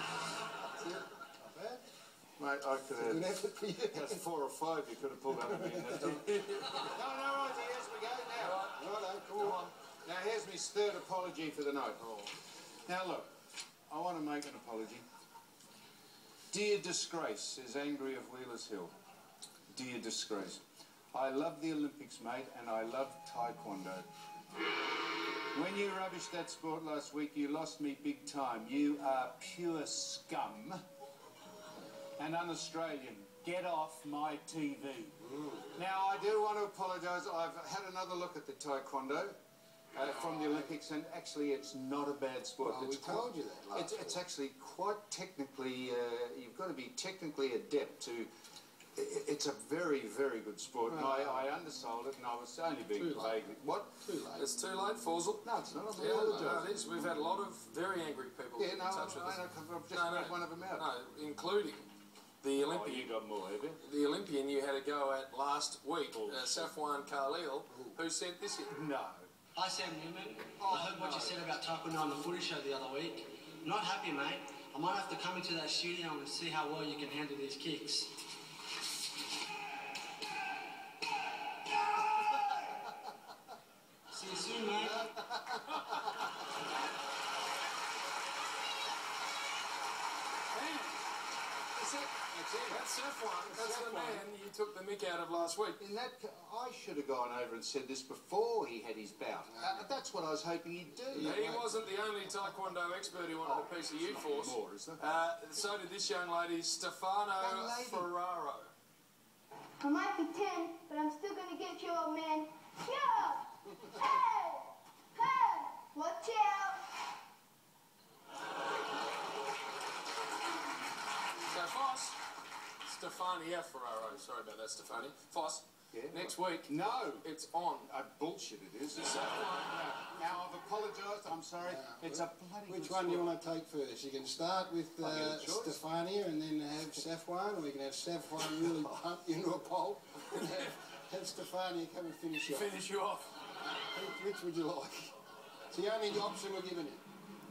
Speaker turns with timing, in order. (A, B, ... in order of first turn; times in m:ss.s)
0:00.7-0:01.8 A
0:02.4-0:03.3 B
0:03.0-0:04.2 A
0:03.9-0:08.7 B
0:05.3-0:06.2 A
0:08.4-0:08.7 C
0:08.7-0:09.6 A
0:09.4-0:12.3 B
0:12.9-0:13.3 B
0:13.9-0:15.0 B
0:16.5-0:18.9 B
0:19.7-0:20.6 B
0:21.1-0:24.0 B
0:25.5-0:30.8 B
0:32.2-0:35.2 B
0:35.3-0:35.7 A
0:35.8-0:39.4 B
0:39.9-0:48.3 B
0:42.6-0:44.2 A
0:49.0-0:54.0 B
0:50.9-0:51.4 A
0:53.0-0:54.4 A
0:54.4-0:55.4 C
0:55.4-0:56.7 B
0:56.0-1:01.9 C
0:58.6-1:00.9 B
1:02.4-1:03.1 C
1:02.6-1:03.8 B
1:03.8-1:08.8 C
1:06.1-1:06.7 B
1:08.7-1:09.3 B
1:09.6-1:18.1 D
1:10.6-1:11.5 B
1:24.1-1:25.2 D
1:25.4-1:25.8 A
1:31.9-1:32.8 A
1:32.7-1:35.8 C
1:33.5-1:34.2 B
1:35.8-1:41.5 B
1:39.5-1:39.9 A
1:41.1-1:41.8 A
1:41.2-1:48.7 C
1:43.4-1:45.1 B
1:47.4-1:48.1 B
1:49.8-1:56.8 E
2:01.5-2:02.2 C
2:02.8-2:07.9 C
2:05.9-2:07.3 B
2:07.8-2:13.4 B
2:09.0-2:09.7 C
2:11.6-2:22.7 A
2:15.0-2:15.8 B
2:20.3-2:20.7 C
2:22.5-2:23.3 C
2:23.8-2:25.1 A
2:25.7-2:27.0 A